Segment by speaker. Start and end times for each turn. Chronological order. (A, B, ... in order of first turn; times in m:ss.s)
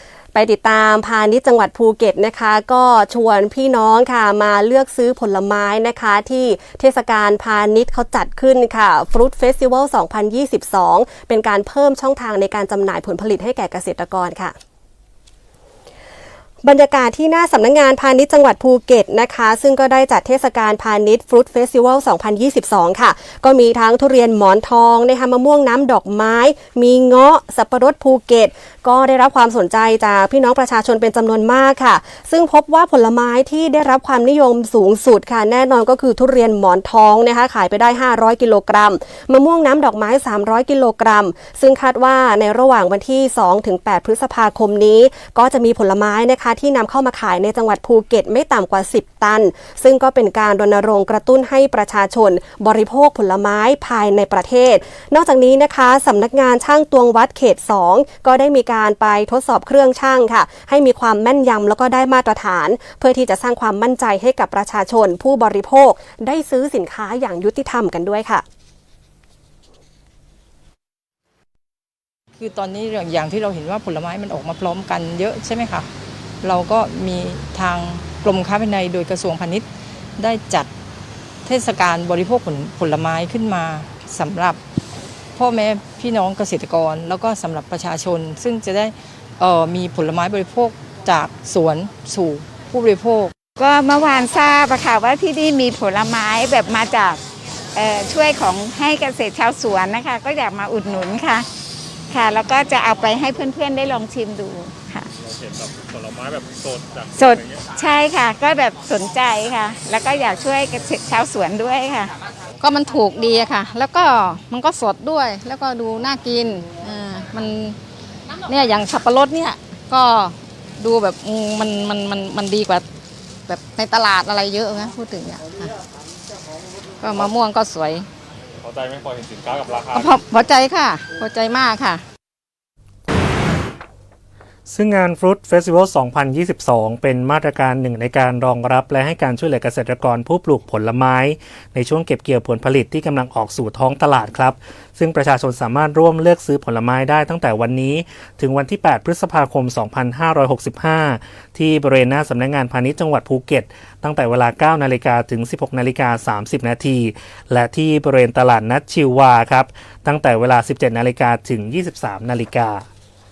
0:00.3-0:14.5 A
0:16.6-1:08.4 A
1:12.4-1:15.9 B
1:16.4-1:19.7 B
1:20.2-1:20.7 B
1:21.4-1:24.6 B
1:25.4-1:33.3 B
1:33.6-1:37.2 C
1:37.7-1:41.4 C
1:42.1-1:45.1 C
1:45.1-1:47.7 D
1:47.1-1:52.1 C
1:52.6-1:57.8 E
1:58.5-2:02.8 E
2:03.5-2:05.7 E
2:07.0-2:08.1 E
2:08.6-2:10.2 D
2:09.9-2:12.0 E
2:14.7-2:42.8 F